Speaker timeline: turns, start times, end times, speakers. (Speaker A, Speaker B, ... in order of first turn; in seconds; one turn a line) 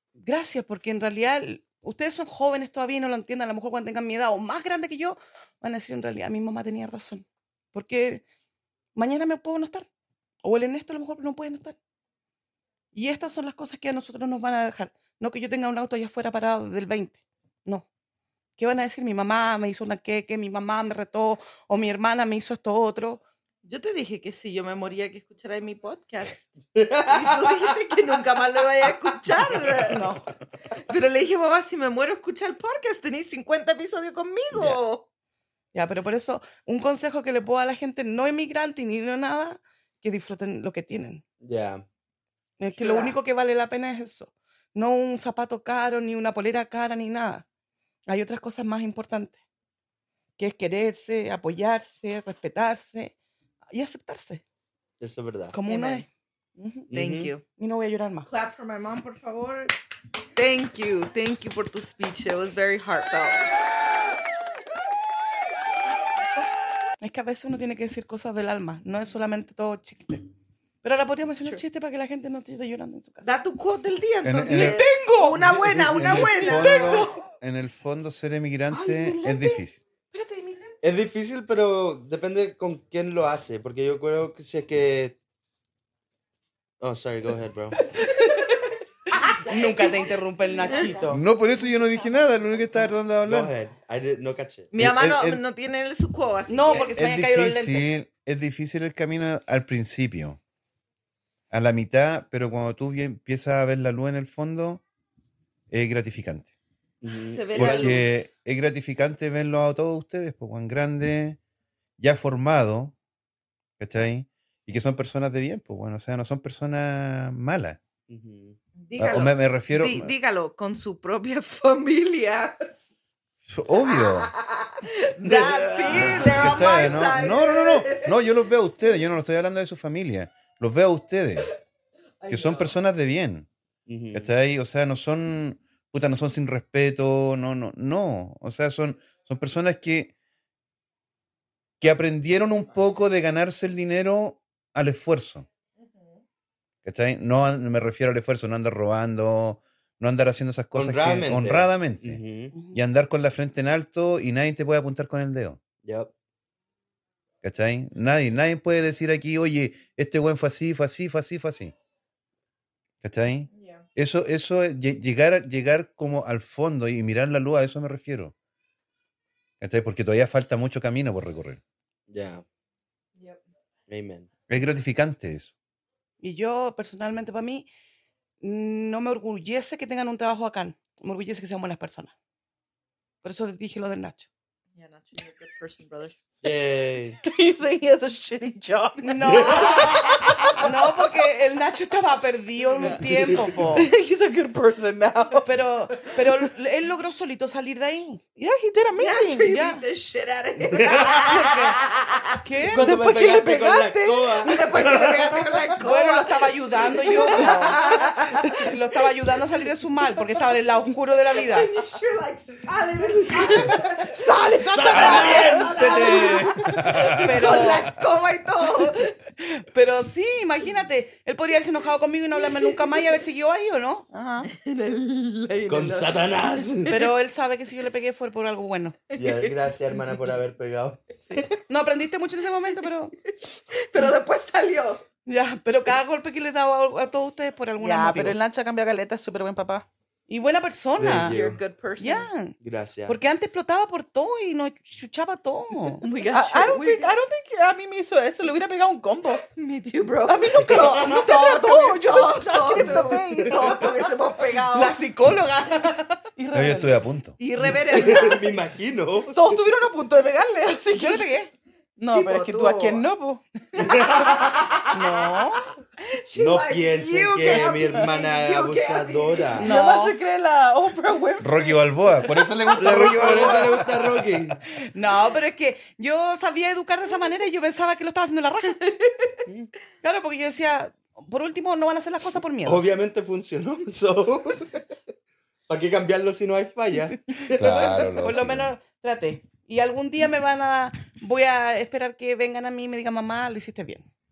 Speaker A: 0.2-8.2
Speaker A: 8.9-9.9
Speaker A: 10.4-11.8
Speaker A: 12.9-17.9
Speaker A: 18.6-23.2
Speaker B: 23.6-26.6
Speaker C: 26.8-27.7
Speaker B: 27.1-30.1
Speaker C: 29.6-30.1
Speaker B: 30.9-35.1
Speaker A: 35.7-41.2
Speaker C: 41.4-41.8
Speaker A: 42.6-47.5
Speaker B: 42.8-43.1
Speaker A: 48.1-49.4
Speaker A: 50.4-53.1
Speaker A: 53.7-54.4
Speaker C: 55.0-55.6
Speaker A: 55.5-56.9
Speaker B: 55.7-56.1
Speaker C: 56.9-57.3
Speaker B: 56.9-57.4
Speaker A: 57.5-58.3
Speaker B: 58.3-59.8
Speaker B: 60.4-63.5
Speaker A: 67.0-70.2
Speaker A: 70.8-73.3
Speaker B: 73.2-77.2
Speaker D: 74.2-74.8
Speaker A: 74.5-75.4
Speaker D: 75.6-79.8
Speaker C: 75.7-76.2
Speaker A: 76.2-77.2
Speaker A: 78.7-80.8
Speaker C: 80.8-85.2
Speaker C: 86.8-87.8
Speaker A: 89.1-91.1
Speaker C: 90.7-91.2
Speaker D: 91.1-93.5
Speaker C: 93.2-94.7
Speaker B: 94.7-96.9
Speaker D: 94.8-95.4
Speaker A: 96.5-97.9
Speaker D: 96.7-100.4
Speaker D: 101.5-104.8
Speaker D: 105.7-106.5
Speaker C: 107.0-108.1
Speaker B: 107.3-108.2
Speaker D: 107.5-111.4
Speaker D: 112.0-113.0
Speaker D: 113.8-117.8
Speaker C: 118.1-119.3
Speaker B: 118.8-122.9
Speaker D: 119.0-120.1
Speaker D: 123.5-124.3
Speaker B: 123.8-128.2
Speaker C: 125.2-127.2
Speaker D: 126.0-131.5
Speaker B: 132.2-132.8
Speaker D: 132.3-133.5
Speaker C: 133.9-134.3
Speaker D: 134.1-140.1
Speaker D: 141.8-145.5
Speaker B: 145.8-146.2
Speaker D: 146.8-155.6
Speaker C: 150.7-152.6
Speaker A: 152.5-152.8
Speaker C: 155.8-156.1
Speaker D: 157.4-161.7
Speaker D: 163.0-168.3
Speaker B: 163.5-163.9
Speaker D: 169.6-171.6
Speaker C: 172.1-172.4
Speaker B: 173.2-173.4
Speaker C: 173.9-174.3
Speaker D: 174.5-175.5
Speaker A: 176.2-177.7
Speaker A: 178.4-182.1
Speaker A: 183.2-184.3
Speaker B: 184.8-186.5
Speaker C: 186.4-187.2
Speaker E: 187.2-190.7
Speaker A: 189.0-189.9
Speaker C: 189.2-190.0
Speaker B: 189.6-190.2
Speaker A: 190.6-193.9
Speaker C: 193.0-193.6
Speaker E: 193.7-195.5
Speaker A: 195.4-198.2
Speaker E: 196.2-196.5
Speaker E: 198.4-199.5
Speaker B: 199.0-202.4
Speaker A: 199.5-199.8
Speaker C: 200.6-201.4
Speaker A: 201.3-201.8
Speaker A: 202.4-202.9
Speaker E: 202.8-204.5
Speaker C: 202.8-205.5
Speaker B: 204.4-208.2
Speaker A: 205.8-207.8
Speaker C: 207.4-208.4
Speaker E: 208.4-208.7
Speaker A: 208.6-211.7
Speaker B: 211.3-214.1
Speaker E: 213.5-216.3
Speaker C: 214.6-216.0
Speaker B: 214.8-219.2
Speaker D: 215.7-217.9
Speaker A: 217.2-217.9
Speaker A: 219.4-224.1
Speaker E: 224.1-224.5
Speaker B: 224.4-227.1
Speaker C: 225.7-227.0
Speaker A: 226.9-229.0
Speaker B: 229.1-230.2
Speaker C: 229.2-231.6
Speaker A: 231.7-233.2
Speaker B: 233.3-235.0
Speaker A: 235.3-238.4
Speaker E: 237.8-239.9
Speaker A: 240.3-241.3
Speaker C: 241.0-241.6
Speaker B: 241.1-242.3
Speaker A: 242.0-242.6
Speaker C: 242.6-243.2
Speaker A: 243.1-246.0
Speaker B: 246.0-247.1
Speaker E: 246.3-249.4
Speaker B: 249.6-255.0
Speaker E: 250.3-253.9
Speaker C: 250.6-251.3
Speaker A: 254.7-256.2
Speaker E: 256.4-257.0
Speaker D: 256.5-257.4
Speaker B: 257.4-258.5
Speaker C: 257.9-259.5
Speaker E: 259.3-261.2
Speaker A: 260.9-261.5
Speaker E: 262.0-263.4
Speaker B: 262.1-263.1
Speaker B: 263.8-265.2
Speaker C: 263.8-264.6
Speaker A: 264.9-265.6
Speaker E: 265.1-265.4
Speaker B: 266.0-269.7
Speaker C: 266.4-269.7
Speaker A: 269.6-270.2
Speaker E: 269.6-273.7
Speaker D: 271.4-274.3
Speaker C: 272.8-274.6
Speaker A: 274.7-278.9
Speaker A: 280.0-282.8
Speaker C: 282.6-285.0
Speaker C: 285.7-288.1
Speaker D: 287.6-288.7
Speaker A: 287.6-294.1